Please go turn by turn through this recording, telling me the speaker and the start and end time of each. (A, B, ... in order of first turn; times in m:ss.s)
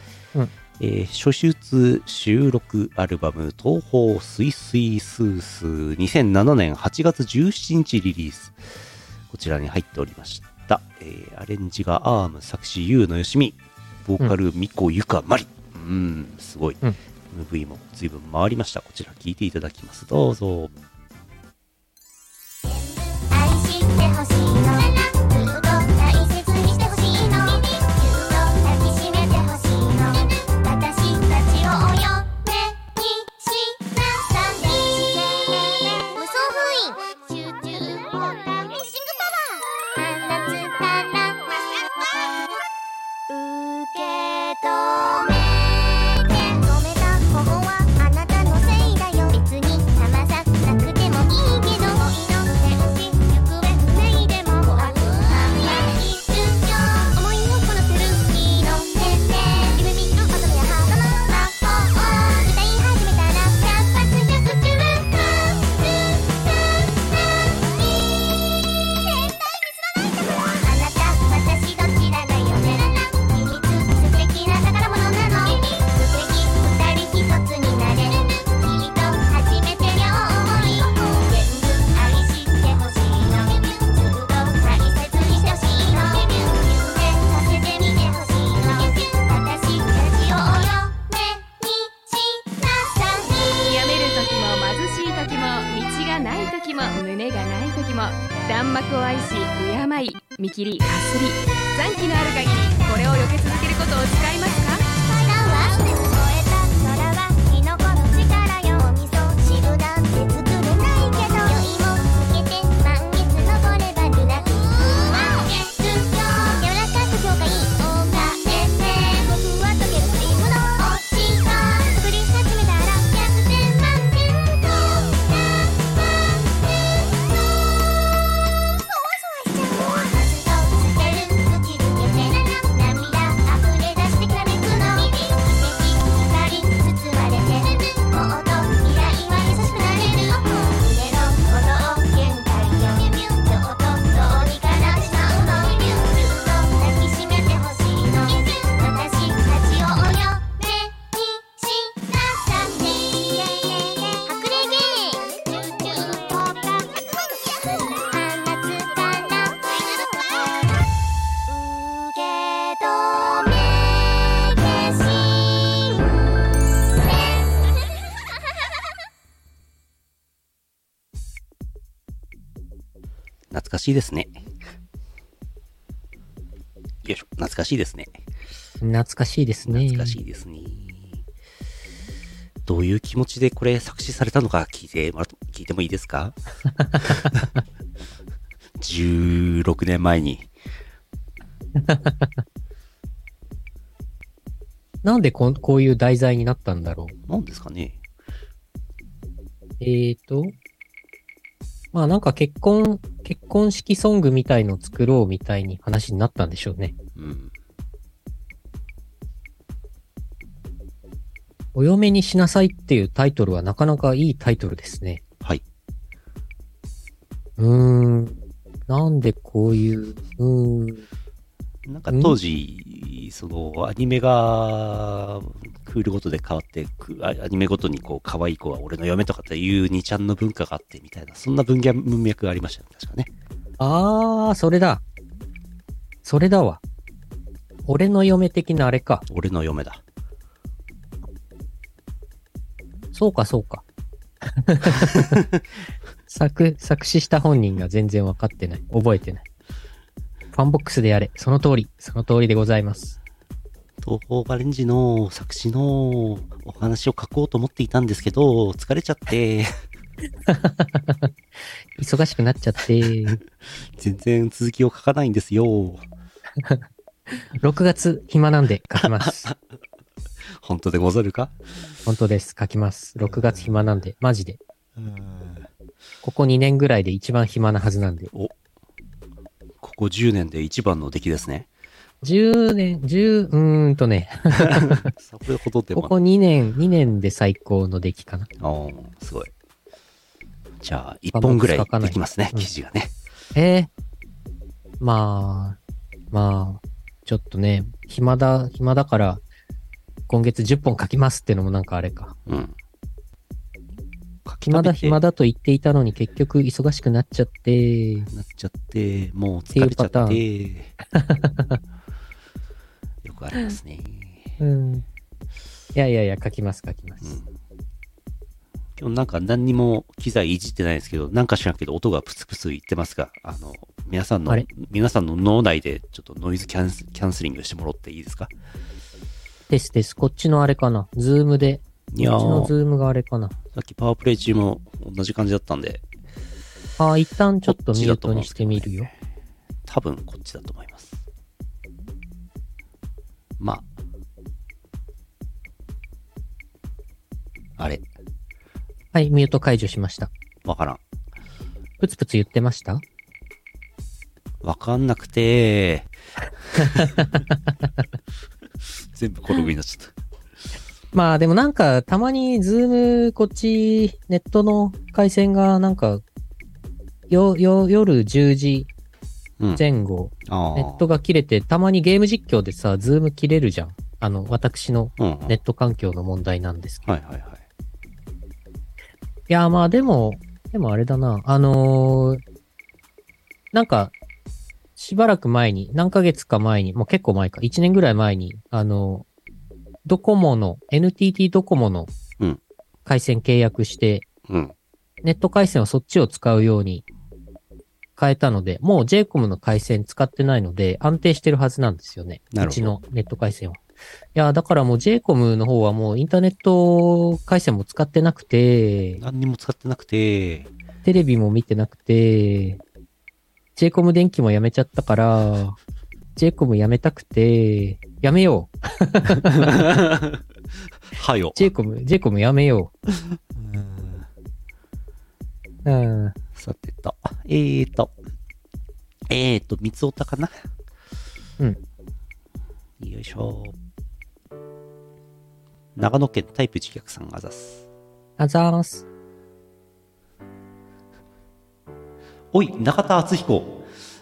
0:00.8-0:08.6 A
0:09.3-0:20.8 A
0:22.6-0:42.6 B
0:43.3-1:08.2 B
1:09.0-1:33.6 B
1:33.6-1:44.9 C
1:42.6-1:44.3 B
1:44.9-2:06.4 B
2:08.8-2:40.8 B
2:41.5-2:46.1 B
2:47.1-2:47.4 B
2:53.5-2:54.4 A
2:57.0-2:58.2 A
2:58.8-3:00.2 D
2:59.6-3:01.2 A
3:02.7-3:06.4 A
3:07.0-3:07.4 A
3:08.8-3:10.5 A
3:11.8-3:12.3 D
3:15.0-3:17.2 D
3:17.3-3:18.0 A
3:19.8-3:20.6 D
3:21.9-3:27.0 D
3:27.2-3:27.5 A
3:31.8-3:35.2 D
3:37.6-3:41.0 D
3:41.9-3:53.3 A
3:42.1-3:42.4 D
3:53.8-3:55.0 D
3:56.2-3:56.8 D
3:57.9-3:59.3 D
3:59.3-4:00.0 A
4:03.1-4:03.8 D
4:04.6-4:05.4 D
4:06.3-4:09.4 D
4:10.5-4:13.2 D
4:14.0-4:19.7 A
4:20.5-4:21.3 D
4:22.0-4:23.4 D
4:24.0-4:26.1 A
4:27.6-4:29.5 D
4:29.0-4:29.6 A
4:30.6-4:31.6 A
4:32.1-4:34.6 D
4:33.3-4:33.9 A
4:35.0-4:35.7 A
4:36.2-4:38.3 D
4:39.8-4:41.7 A
4:42.2-4:45.1 D
4:44.6-4:46.2 A
4:45.9-4:48.5 D
4:48.6-4:49.5 A
4:50.8-4:53.1 A
4:51.3-4:52.7 D
4:53.6-4:53.9 D
4:55.0-4:55.8 D
4:56.3-4:59.4 D
5:00.3-5:02.4 D
5:02.5-5:02.8 A
5:04.4-5:05.2 A
5:04.6-5:08.3 D
5:08.3-5:10.9 A
5:09.7-5:10.4 D
5:11.2-5:11.8 D
5:13.2-5:14.5 A
5:14.6-5:15.0 D
5:16.0-5:17.4 D
5:17.2-5:17.5 A
5:19.0-5:28.5 A
5:29.7-5:33.6 D
5:32.1-5:32.7 A
5:33.8-5:36.0 A
5:37.0-5:39.1 D
5:37.6-5:39.1 A
5:39.9-5:41.2 A
5:43.6-5:43.9 A
5:47.8-5:48.0 A
5:49.1-5:50.3 D
5:50.6-5:51.0 A
5:52.0-5:53.0 D
5:54.6-5:56.1 A
5:56.8-5:57.2 A
5:57.0-5:57.2 D
5:59.1-6:00.1 A
6:01.1-6:06.2 D
6:07.3-6:08.9 D
6:09.6-6:09.8 A
6:09.8-6:17.1 D
6:10.5-6:11.1 A
6:15.2-6:15.6 A
6:17.0-6:17.6 A
6:19.5-6:22.4 D
6:23.7-6:24.1 D
6:25.0-6:29.3 D
6:30.0-6:32.1 D
6:33.1-6:34.3 D
6:34.5-6:34.8 A
6:35.2-6:37.0 D
6:38.2-6:43.8 D
6:42.5-6:43.0 A
6:44.4-6:49.2 D
6:49.2-6:50.7 A
6:51.0-6:52.8 D
6:53.8-6:55.8 D
6:56.4-6:59.9 D
6:59.4-7:00.4 A
7:01.1-7:01.7 A
7:01.6-7:02.9 D
7:03.3-7:04.3 A
7:05.8-7:06.4 D
7:06.6-7:08.1 A
7:09.3-7:10.6 A
7:13.0-7:13.8 A
7:16.0-7:17.8 A
7:18.4-7:19.0 D
7:22.5-7:23.8 A